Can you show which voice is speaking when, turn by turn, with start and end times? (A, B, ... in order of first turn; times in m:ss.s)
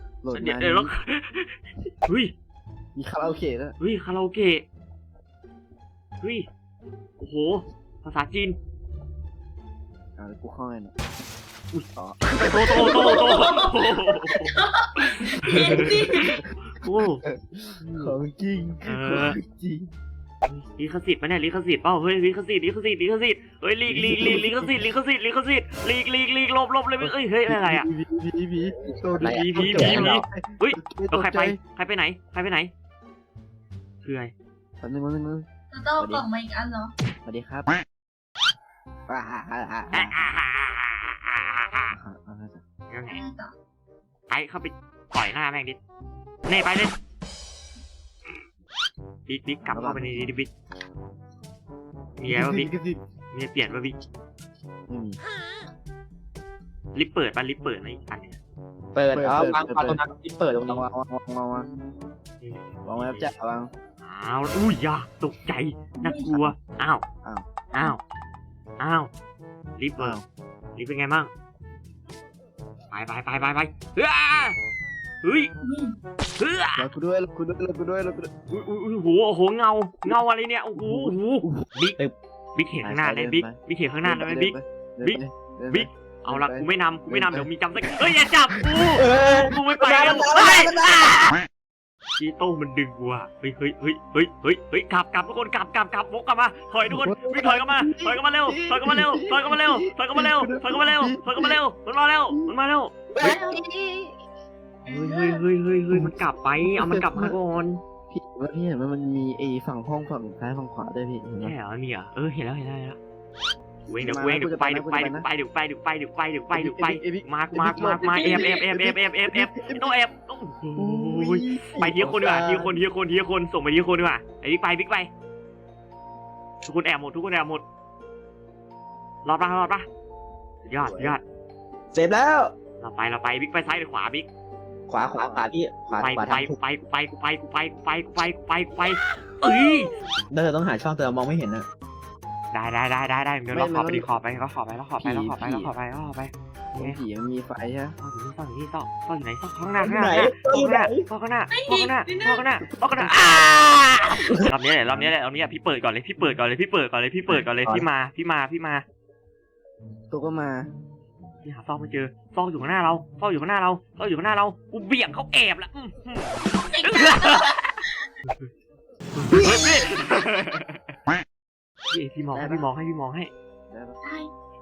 0:00.2-0:00.9 A
0:00.3-0:01.5 B
0:02.0-0:02.3 B
0:02.9-0:03.8 A
0:03.8-0:04.6 B
0:06.2-0:06.5 B
0:07.2-0:08.6 B
0:10.2-0:10.9 A
0:11.9-0:13.3 A
0:12.4-0:14.5 B
0:12.7-0:16.4 C
0:15.2-0:17.2 B
0:15.5-0:19.9 A
0:17.9-0:18.1 B
0:18.8-0:19.4 B
0:20.5-0:27.9 B
0:23.9-0:24.8 A
0:27.0-0:31.6 A
0:29.0-0:30.2 D
0:29.2-0:32.7 B
0:34.0-0:34.3 B
0:34.8-0:35.5 A
0:35.7-0:36.9 C
0:36.0-0:36.2 A
0:37.2-0:37.7 A
0:39.1-0:40.3 A
0:39.9-0:41.9 B
0:41.9-0:42.6 A
0:42.9-0:43.2 B
0:43.1-0:43.5 C
0:44.3-0:45.8 B
0:46.5-0:47.0 B
0:49.3-0:50.5 B
0:49.6-0:50.2 A
0:52.2-0:52.7 B
0:52.3-0:53.0 A
0:53.3-0:54.0 B
0:54.9-0:55.2 A
0:56.9-0:58.4 B
0:58.9-1:00.8 D
0:59.1-1:01.7 A
1:02.4-1:03.3 B
1:02.8-1:03.7 A
1:04.0-1:07.0 B
1:06.0-1:06.4 C
1:07.7-1:08.0 B
1:08.8-1:09.1 B
1:09.8-1:10.2 B
1:10.0-1:10.2 A
1:10.8-1:11.3 B
1:12.9-1:14.6 B
1:15.2-1:15.5 B
1:15.6-1:16.0 C
1:16.4-1:16.9 B
1:16.8-1:18.3 A
1:18.5-1:22.0 B
1:20.8-1:21.6 A
1:22.5-1:31.1 B
1:22.8-1:27.5 A
1:28.9-1:31.4 D
1:32.2-1:42.9 B
1:36.9-1:41.6 A
1:43.2-1:43.4 D
1:43.2-1:44.1 A
1:43.2-1:43.6 C
1:44.8-1:45.4 C
1:44.9-1:47.8 B
1:46.6-1:47.4 A
1:48.1-1:51.5 A
1:51.4-1:53.0 B
1:53.9-2:05.1 B
1:54.0-1:55.3 A
1:56.5-2:00.0 A
1:58.2-1:58.6 C
2:00.8-2:02.5 A
2:02.0-2:02.7 D
2:06.6-2:07.6 B
2:09.2-2:09.8 B
2:10.6-2:11.2 B
2:10.7-2:11.2 A
2:11.9-2:12.5 D
2:12.8-2:14.3 B
2:14.9-2:16.6 D
2:15.0-2:15.6 A
2:15.9-2:19.9 B
2:20.3-2:21.6 D
2:22.5-2:27.0 B
2:23.5-2:24.1 A
2:25.0-2:25.7 A
2:26.8-2:28.0 A
2:28.0-2:38.8 B
2:29.8-2:31.1 D
2:31.5-2:32.5 C
2:32.8-2:33.4 A
2:37.3-2:37.8 D
2:40.1-2:40.7 A
2:41.4-2:47.7 B
2:46.5-2:47.6 C
2:49.2-2:50.9 B
2:51.9-2:53.3 B
2:52.3-2:52.7 A
2:53.7-2:54.0 A
2:54.0-2:54.3 C